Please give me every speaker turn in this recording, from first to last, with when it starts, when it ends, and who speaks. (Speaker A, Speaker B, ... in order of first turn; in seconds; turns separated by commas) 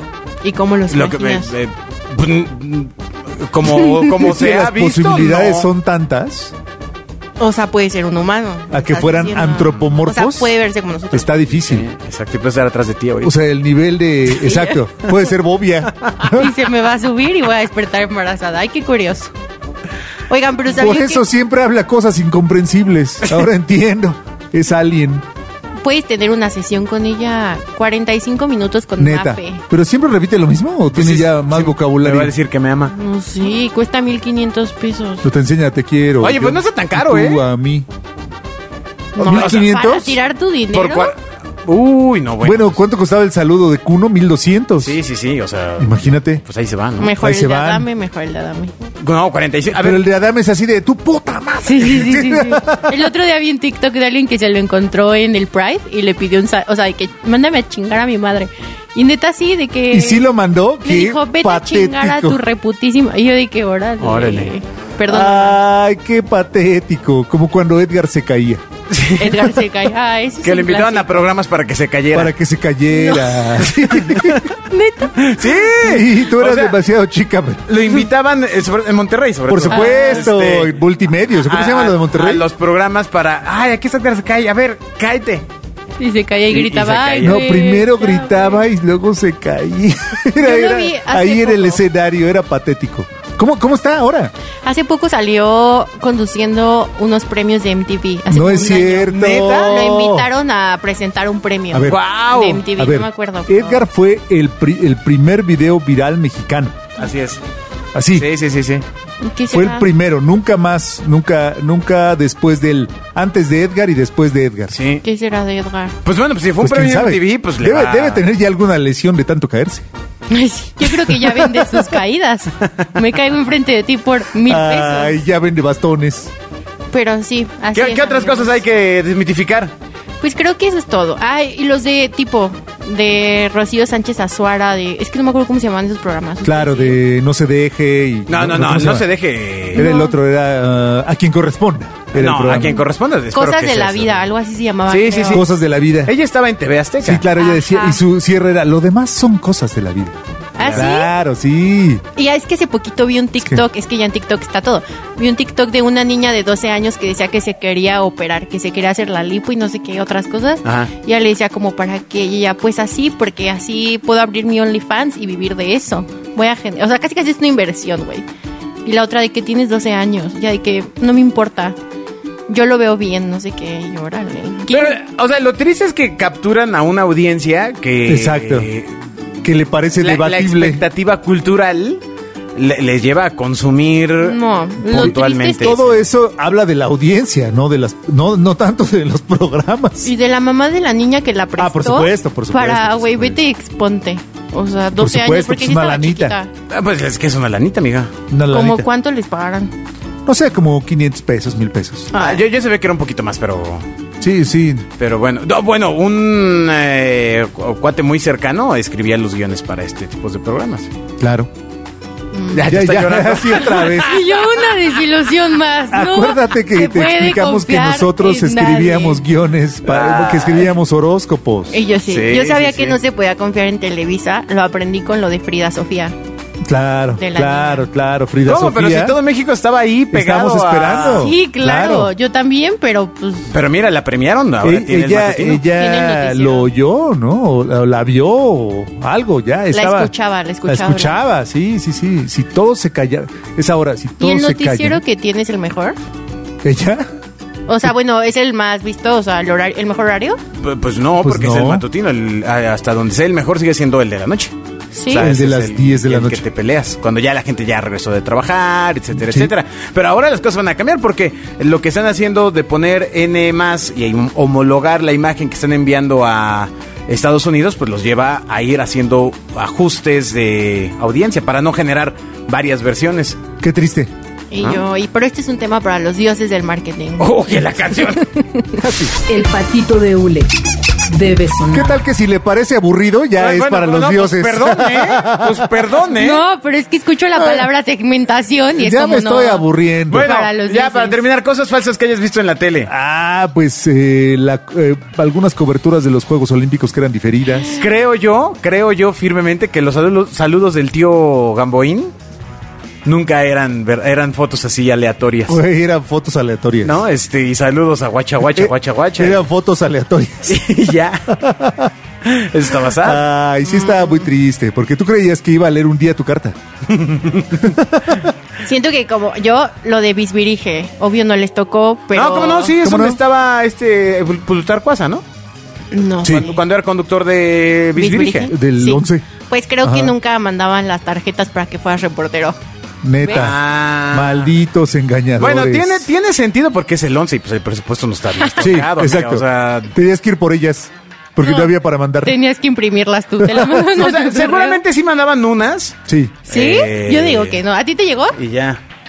Speaker A: 0.4-1.5, Speaker B: 0.9-5.7, Speaker C: 4.1-6.5, Speaker A: 7.4-11.5, Speaker C: 8.7-10.5, Speaker C: 11.1-11.9, Speaker B: 11.7-13.3, Speaker C: 13.2-16.5, Speaker A: 14.4-14.8, Speaker A: 16.3-19.3, Speaker A: 20.3-21.2, Speaker C: 20.7-25.2, Speaker A: 25.8-29.6, Speaker C: 29.0-32.3, Speaker B: 30.9-32.9, Speaker A: 32.9-35.3, Speaker C: 35.2-37.9, Speaker B: 36.2-37.4, Speaker A: 39.1-41.1, Speaker C: 39.2-40.2, Speaker B: 39.2-39.7, Speaker B: 40.7-42.8, Speaker C: 42.4-45.0, Speaker B: 44.8-47.1, Speaker C: 45.8-46.4, Speaker A: 47.0-48.7, Speaker C: 47.1-47.9, Speaker B: 49.0-50.0, Speaker C: 49.7-53.1, Speaker A: 51.6-60.2, Speaker C: 59.9-62.4, Speaker A: 60.8-65.6, Speaker B: 64.0-64.5, Speaker C: 65.1-68.6, Speaker B: 68.9-69.7, Speaker A: 69.2-71.3, Speaker B: 70.4-72.3, Speaker C: 72.1-74.5, Speaker A: 72.9-73.2, Speaker B: 73.4-74.5, Speaker A: 74.7-75.2, Speaker B: 75.2-76.8, Speaker C: 75.7-77.7, Speaker B: 77.7-80.8, Speaker C: 79.5-82.5, Speaker A: 79.7-80.3, Speaker B: 81.4-85.5, Speaker A: 86.0-88.6, Speaker B: 86.5-87.5, Speaker C: 87.2-94.3, Speaker A: 90.4-91.8, Speaker A: 94.6-103.8, Speaker C: 98.3-100.3, Speaker B: 99.1-99.8, Speaker C: 101.7-102.0, Speaker B: 101.9-102.7, Speaker C: 102.7-106.8, Speaker B: 107.0-107.4, Speaker C: 107.9-108.3, Speaker B: 108.2-108.8, Speaker A: 109.2-109.9, Speaker C: 109.5-114.8, Speaker B: 114.7-115.0, Speaker A: 115.0-116.0, Speaker B: 116.0-118.2, Speaker C: 116.6-119.9, Speaker A: 120.3-125.2, Speaker C: 120.9-121.5, Speaker C: 124.5-126.3, Speaker A: 126.9-128.6, Speaker B: 127.7-129.7, Speaker A: 130.2-137.0, Speaker C: 136.4-139.1, Speaker B: 138.3-139.8, Speaker C: 139.7-142.8, Speaker A: 139.7-140.2, Speaker B: 142.1-144.3, Speaker A: 142.5-145.4, Speaker B: 144.9-145.5, Speaker C: 145.3-146.1, Speaker B: 146.1-147.3, Speaker C: 147.0-150.2, Speaker A: 147.3-148.0, Speaker A: 150.6-151.1, Speaker B: 150.6-150.9, Speaker C: 150.7-152.0, Speaker A: 152.2-168.3, Speaker B: 160.7-160.9, Speaker A: 168.8-171.8, Speaker A: 172.5-175.0, Speaker B: 174.7-178.9, Speaker C: 178.1-178.7, Speaker C: 179.4-180.8, Speaker B: 180.0-182.0, Speaker B: 182.6-186.0, Speaker A: 184.2-185.8, Speaker C: 185.0-190.1, Speaker A: 190.0-196.5, Speaker C: 191.6-193.4, Speaker C: 195.0-196.4, Speaker B: 196.7-198.1, Speaker C: 198.3-198.9, Speaker A: 198.5-199.7, Speaker C: 200.3-202.1, Speaker A: 202.1-202.4, Speaker B: 202.1-203.9, Speaker C: 204.2-204.9, Speaker B: 205.0-210.9, Speaker C: 211.2-211.5, Speaker A: 212.3-212.7, Speaker B: 212.5-214.5, Speaker C: 212.7-214.2, Speaker A: 213.7-219.2, Speaker C: 215.9-221.8, Speaker B: 219.9-220.7, Speaker A: 221.7-226.2, Speaker B: 222.1-223.0, Speaker C: 226.6-229.2, Speaker A: 227.2-227.9, Speaker B: 228.4-231.3, Speaker C: 230.1-232.1, Speaker A: 230.9-233.5, Speaker B: 233.5-235.7, Speaker C: 234.6-240.1, Speaker A: 235.6-236.7, Speaker A: 239.7-241.2, Speaker C: 240.7-245.0, Speaker A: 244.2-246.0, Speaker C: 246.6-247.1, Speaker A: 247.7-250.4, Speaker B: 250.6-254.5, Speaker C: 251.2-251.8, Speaker A: 254.9-255.3, Speaker B: 255.1-273.4, Speaker C: 255.2-256.4, Speaker C: 259.2-259.5, Speaker C: 273.6-274.1, Speaker A: 274.5-277.3, Speaker B: 277.2-278.4, Speaker A: 278.1-278.8, Speaker C: 278.8-279.1, Speaker D: 279.3-280.6, Speaker D: 281.1-282.0, Speaker C: 281.7-285.7, Speaker B: 283.4-286.4, Speaker A: 286.2-291.2, Speaker C: 287.4-287.7, Speaker C: 288.8-290.3, Speaker B: 290.1-292.9, Speaker C: 292.9-297.8, Speaker B: 297.7-302.1, Speaker B: 303.1-305.6, Speaker C: 305.5-307.0, Speaker B: 306.8-309.4, Speaker C: 308.5-310.6, Speaker B: 310.4-311.4, Speaker C: 311.3-311.9, Speaker B: 312.2-313.2, Speaker C: 312.9-316.6, Speaker A: 313.6-314.3, Speaker B: 316.9-317.7, Speaker C: 317.6-318.3, Speaker A: 318.6-322.8, Speaker B: 322.1-325.2, Speaker C: 322.8-323.2, Speaker A: 325.9-326.6, Speaker C: 326.2-326.5, Speaker B: 326.3-328.5, Speaker A: 328.0-332.6, Speaker C: 328.5-329.2, Speaker C: 329.8-330.1, Speaker C: 333.0-336.1, Speaker A: 333.2-333.5, Speaker B: 333.3-334.5, Speaker B: 335.4-339.9, Speaker A: 338.4-338.6, Speaker C: 338.6-342.4, Speaker A: 341.4-344.8, Speaker C: 343.4-343.9, Speaker B: 343.9-347.6, Speaker C: 346.1-346.4, Speaker A: 346.5-348.4, Speaker B: 348.4-348.8